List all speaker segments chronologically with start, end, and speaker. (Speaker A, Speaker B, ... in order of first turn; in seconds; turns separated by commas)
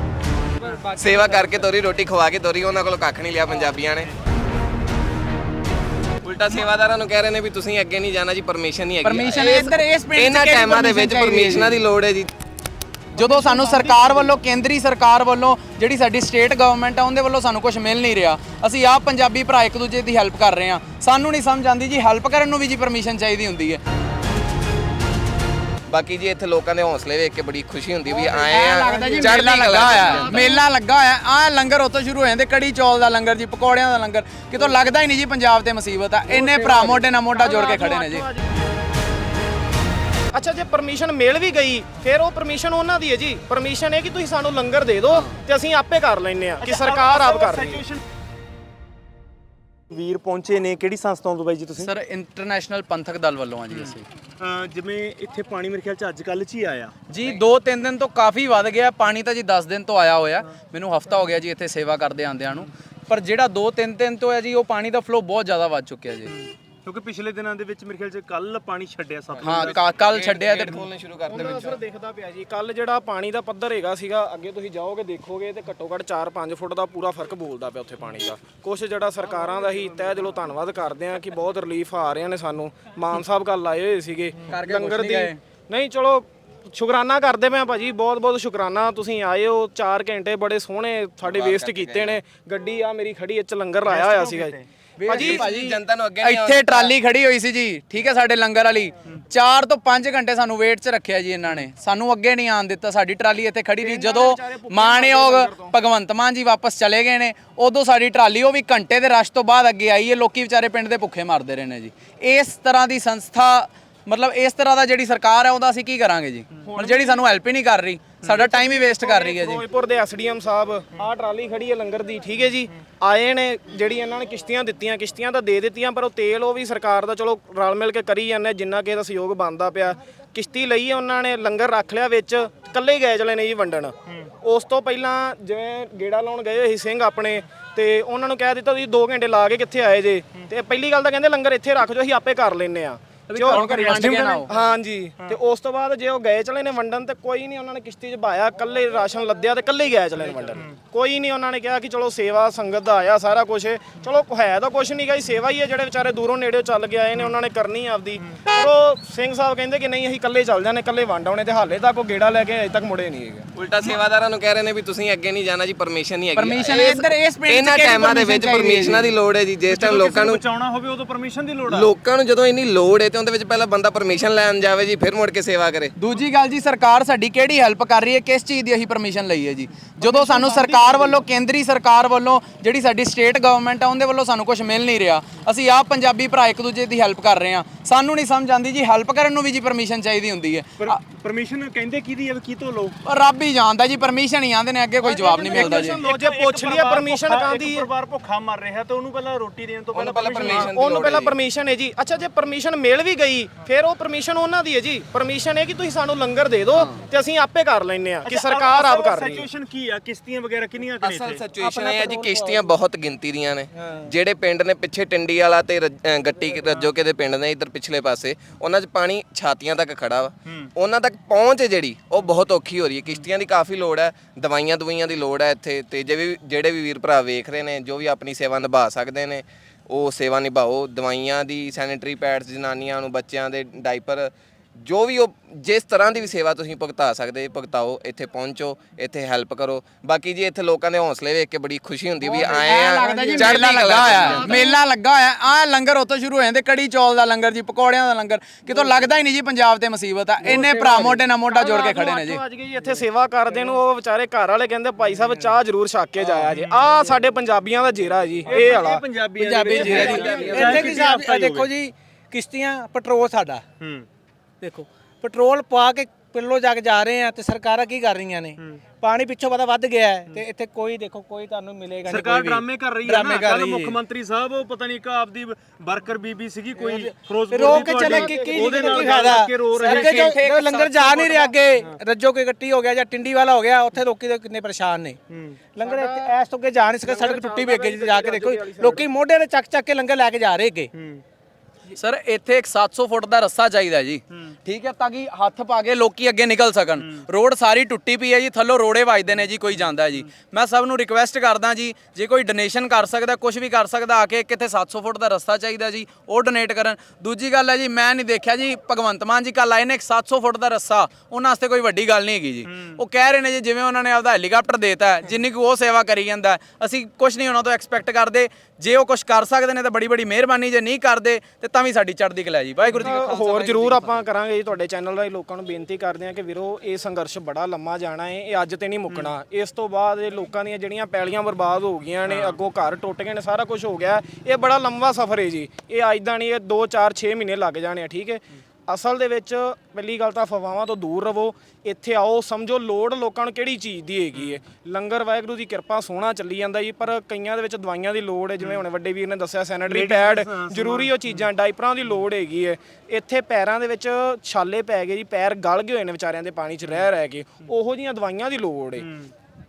Speaker A: 0.9-4.1, Speaker A: 6.2-12.3, Speaker B: 9.0-11.8, Speaker B: 13.2-23.8, Speaker C: 13.2-14.3, Speaker A: 25.9-30.5, Speaker B: 28.3-38.2, Speaker C: 28.9-29.3, Speaker D: 30.2-30.4, Speaker C: 36.4-37.0, Speaker D: 37.3-38.5, Speaker D: 40.3-47.8, Speaker B: 45.1-45.4, Speaker E: 46.6-48.0, Speaker E: 49.9-51.9, Speaker B: 51.8-54.0, Speaker E: 53.7-56.9, Speaker B: 57.1-66.3, Speaker E: 66.3-69.8, Speaker A: 69.3-71.8, Speaker B: 69.4-70.8, Speaker D: 71.3-95.5, Speaker B: 84.5-85.4, Speaker A: 91.2-92.2, Speaker E: 93.9-94.6, Speaker B: 95.0-119.6, Speaker A: 95.1-96.9, Speaker D: 103.8-105.8, Speaker D: 116.7-117.2, Speaker D: 118.3-163.5, Speaker E: 134.1-134.3, Speaker B: 143.3-144.5, Speaker E: 143.3-144.5, Speaker E: 150.3-150.8, Speaker A: 163.6-170.4, Speaker B: 166.4-169.1, Speaker E: 169.7-171.9, Speaker A: 171.7-175.9, Speaker B: 176.0-191.0, Speaker E: 180.0-181.2, Speaker E: 190.8-193.0, Speaker B: 193.1-196.0, Speaker D: 195.0-197.9, Speaker E: 195.5-201.0, Speaker A: 199.9-201.4, Speaker D: 200.4-209.4, Speaker E: 208.2-211.4, Speaker A: 211.0-244.7, Speaker C: 211.6-212.8, Speaker C: 213.8-214.2, Speaker C: 242.3-243.6, Speaker B: 242.6-252.4, Speaker D: 244.2-244.7, Speaker C: 250.5-251.1, Speaker D: 250.6-259.1, Speaker E: 256.2-256.9, Speaker E: 258.4-261.7, Speaker C: 259.4-263.6, Speaker D: 259.7-260.9, Speaker A: 259.9-260.7, Speaker E: 263.8-264.1, Speaker C: 264.6-274.0, Speaker E: 268.6-268.9, Speaker E: 272.1-280.4, Speaker C: 276.8-285.2, Speaker D: 277.7-279.4, Speaker B: 279.8-281.6, Speaker E: 285.3-285.7, Speaker C: 285.7-290.9, Speaker D: 285.8-286.3, Speaker D: 287.0-289.1, Speaker E: 290.9-291.2, Speaker B: 291.9-324.2, Speaker E: 312.7-313.0, Speaker D: 323.0-359.1, Speaker E: 329.1-329.4, Speaker E: 332.3-332.6, Speaker E: 344.3-344.6, Speaker E: 348.6-348.9, Speaker E: 349.9-351.5, Speaker E: 356.8-357.1, Speaker E: 359.0-359.3